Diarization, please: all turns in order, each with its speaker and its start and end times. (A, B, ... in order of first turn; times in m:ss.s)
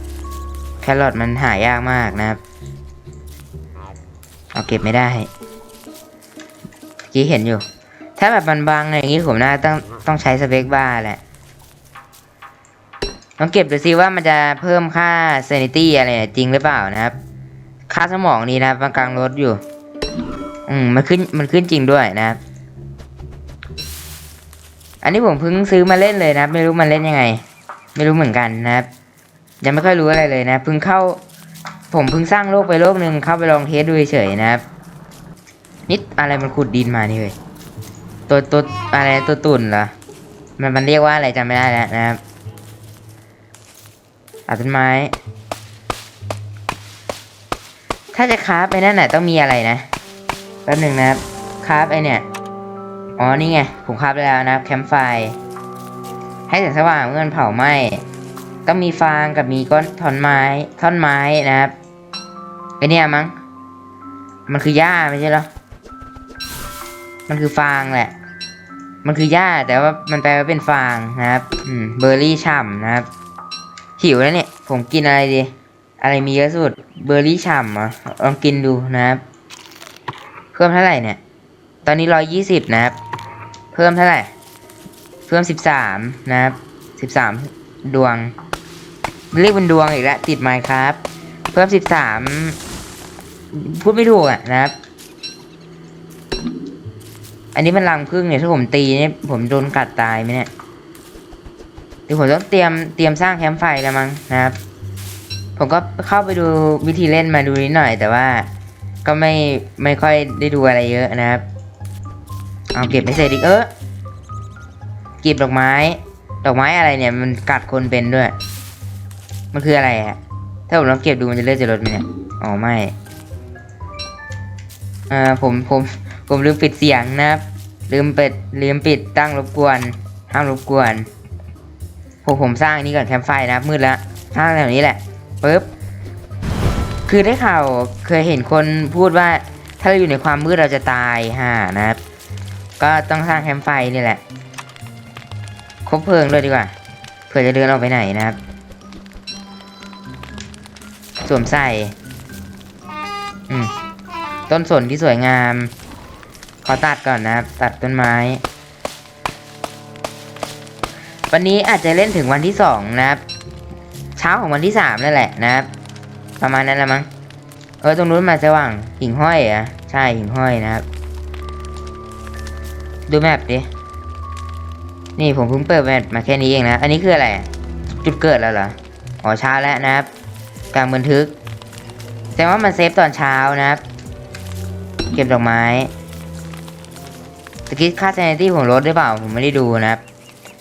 0:00.8-0:02.4 A
0:04.5-0:05.3 A
0:07.1-0:07.6 A
0:08.2-0:11.2 A
0:13.4-0:17.2 A
0:17.9-0:19.6 A
0:20.7-0:22.4 A
0:25.0-0:27.4 A
0:28.0-0:28.9 A
0:29.6-0:31.2 A
0:31.9-0:34.6 A
0:35.9-0:37.3 A
0:38.3-0:39.9 A
0:40.6-0:42.2 A
0:44.5-0:45.1 A
0:48.1-0:49.8 A
0:50.6-0:52.2 A
0:53.2-0:55.4 A
0:56.5-0:58.0 A
0:58.6-1:01.7 A
1:02.8-1:03.3 A
1:04.5-1:05.5 A
1:07.3-1:08.1 A
1:09.0-1:13.1 A
1:14.0-1:19.2 A
1:20.5-1:21.2 A
1:21.8-1:23.0 A
1:23.7-1:24.3 A
1:25.3-1:28.3 A
1:29.3-1:31.0 A
1:31.5-1:32.6 A
1:33.5-1:34.7 A
1:37.5-1:40.5 A
1:42.1-1:44.6 A
1:45.6-1:48.5 A
1:49.0-1:51.4 A
1:52.7-1:53.7 A
1:55.2-1:58.3 A
1:59.5-2:02.9 A
2:05.1-2:11.1 A
2:12.2-2:15.7 A
2:17.1-2:22.0 A
2:22.8-2:24.2 A
2:25.8-2:26.7 A
2:27.3-2:28.4 A
2:31.2-2:31.9 A
2:34.5-2:35.7 A
2:36.6-2:38.4 A
2:41.3-2:43.2 A
2:44.2-2:45.7 A
2:46.4-2:47.1 A
2:47.8-2:50.8 A
2:53.1-2:53.7 A
2:55.2-2:57.5 A
2:58.0-3:00.1 A
3:00.7-3:01.3 A
3:02.4-3:03.8 A
3:05.1-3:05.9 A
3:07.7-3:10.0 A